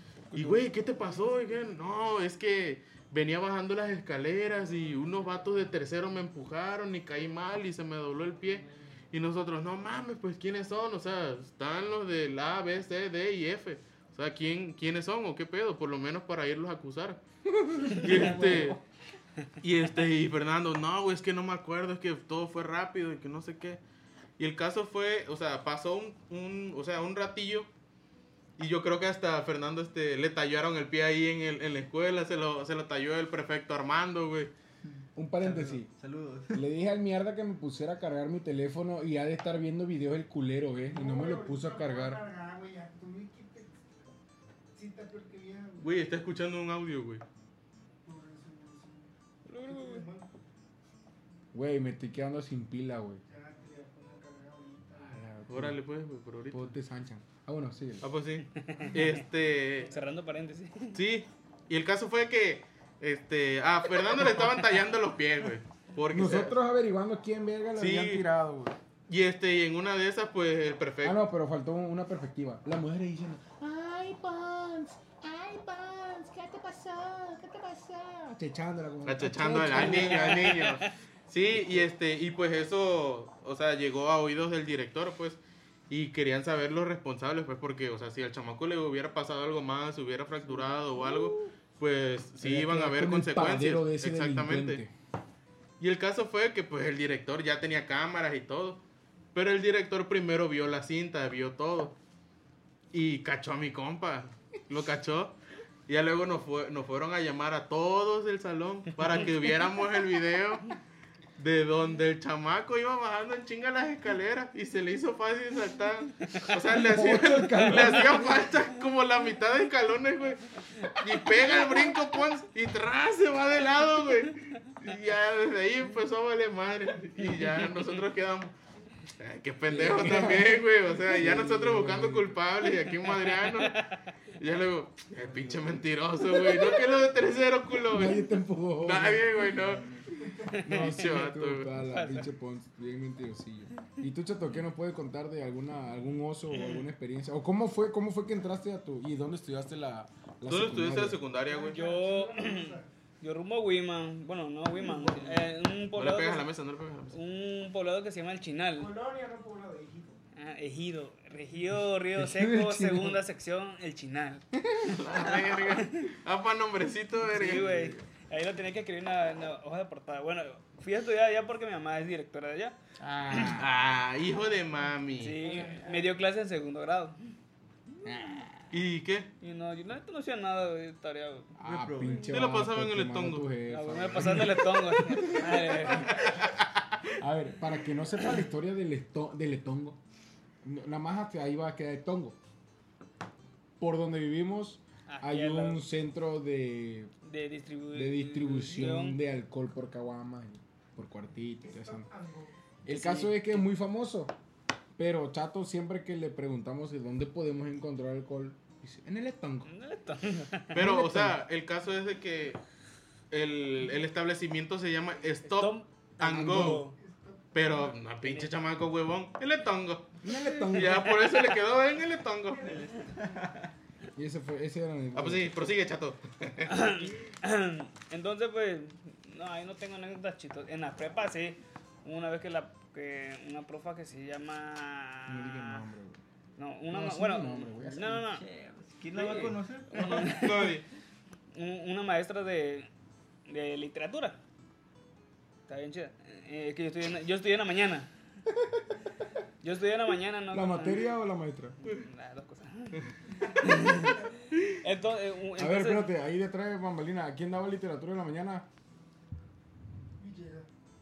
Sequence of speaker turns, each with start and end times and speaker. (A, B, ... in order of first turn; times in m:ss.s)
0:00.3-0:17.2 A
0:00.7-0:01.8 B
0:17.5-0:18.8 C
0:17.9-0:18.8 A
0:18.0-0:18.6 D
0:19.6-0:23.8 A
0:24.4-0:27.7 A
0:28.6-0:34.5 A
0:34.8-0:36.7 D
0:35.2-0:35.9 C
0:36.5-0:42.2 C
0:40.9-0:43.8 B
0:44.7-0:46.2 B
0:45.8-0:47.2 A
0:48.0-0:50.3 B
0:51.5-0:53.2 C
0:53.2-0:55.2 B
0:55.0-0:55.8 C
0:55.5-0:56.7 A
0:56.5-0:58.1 C
0:58.0-0:59.9 A
0:58.5-0:59.2 E
0:59.9-1:01.0 E
1:00.9-1:06.6 A
1:06.1-1:08.8 C
1:07.8-1:08.3 A
1:09.1-1:11.2 A
1:11.0-1:20.6 C
1:19.0-1:34.8 A
1:19.5-1:20.9 E
1:32.4-1:34.9 C
1:35.8-1:38.8 A
1:39.3-1:42.0 A
1:42.9-1:50.7 A
1:51.4-2:08.6 A
1:56.7-1:58.4 C
2:07.2-2:07.9 E
2:09.2-2:13.8 A
2:09.7-2:12.4 C
2:12.6-2:14.0 E
2:14.4-2:18.3 A
2:15.2-2:15.9 D
2:16.4-2:16.8 E
2:17.9-2:19.4 C
2:18.8-2:19.9 A
2:19.0-2:20.2 D
2:20.1-2:20.7 B
2:20.5-2:22.3 E
2:20.6-2:31.2 C
2:20.7-2:21.8 A
2:30.5-2:31.9 A
2:31.4-2:32.9 B
2:31.7-2:36.5 E
2:34.9-2:35.4 C
2:35.9-2:37.2 A
2:37.1-2:38.9 E
2:38.7-2:40.2 B
2:40.4-2:46.1 E
2:42.2-2:43.2 C
2:44.7-2:45.0 C
2:45.0-2:48.0 A
2:47.3-2:52.8 E
2:53.0-2:53.7 C
2:53.3-2:53.6 E
2:53.4-2:55.4 A
2:55.2-2:57.2 E
2:55.6-2:55.9 B
2:58.0-2:58.6 C
2:58.7-2:59.3 A
2:59.4-3:01.5 E
3:01.6-3:06.1 C
3:01.6-3:02.4 D
3:02.3-3:03.5 A
3:03.7-3:06.4 E
3:05.9-3:06.8 A
3:07.2-3:10.0 C
3:10.6-3:12.4 C
3:13.8-3:17.1 C
3:15.1-3:15.9 E
3:17.2-3:19.2 E
3:17.9-3:22.1 C
3:21.6-3:22.6 B
3:22.8-3:24.3 C
3:22.9-3:23.6 E
3:25.0-3:29.7 C
3:29.7-3:30.8 E
3:30.7-3:31.4 C
3:30.7-3:32.6 A
3:33.3-3:36.9 A
3:35.4-3:37.0 E
3:36.2-3:36.9 C
3:37.0-3:38.0 B
3:37.5-3:42.7 A
3:38.2-3:38.5 E
3:40.2-3:41.2 C
3:40.4-3:41.6 E
3:42.5-3:43.5 B
3:42.6-3:43.7 D
3:44.2-3:45.8 C
3:45.1-3:46.9 A
3:46.7-3:55.8 E
3:55.3-3:56.2 C
3:56.6-3:58.4 E
3:56.9-3:58.3 C
3:58.3-4:00.5 D
3:59.1-4:00.8 E
3:59.9-4:00.9 A
4:01.5-4:02.9 E
4:03.5-4:04.4 E
4:05.7-4:08.1 E
4:09.6-4:11.1 E
4:10.5-4:11.8 C
4:11.8-4:16.1 E
4:13.4-4:14.4 B
4:15.6-4:18.7 C
4:20.2-4:20.7 B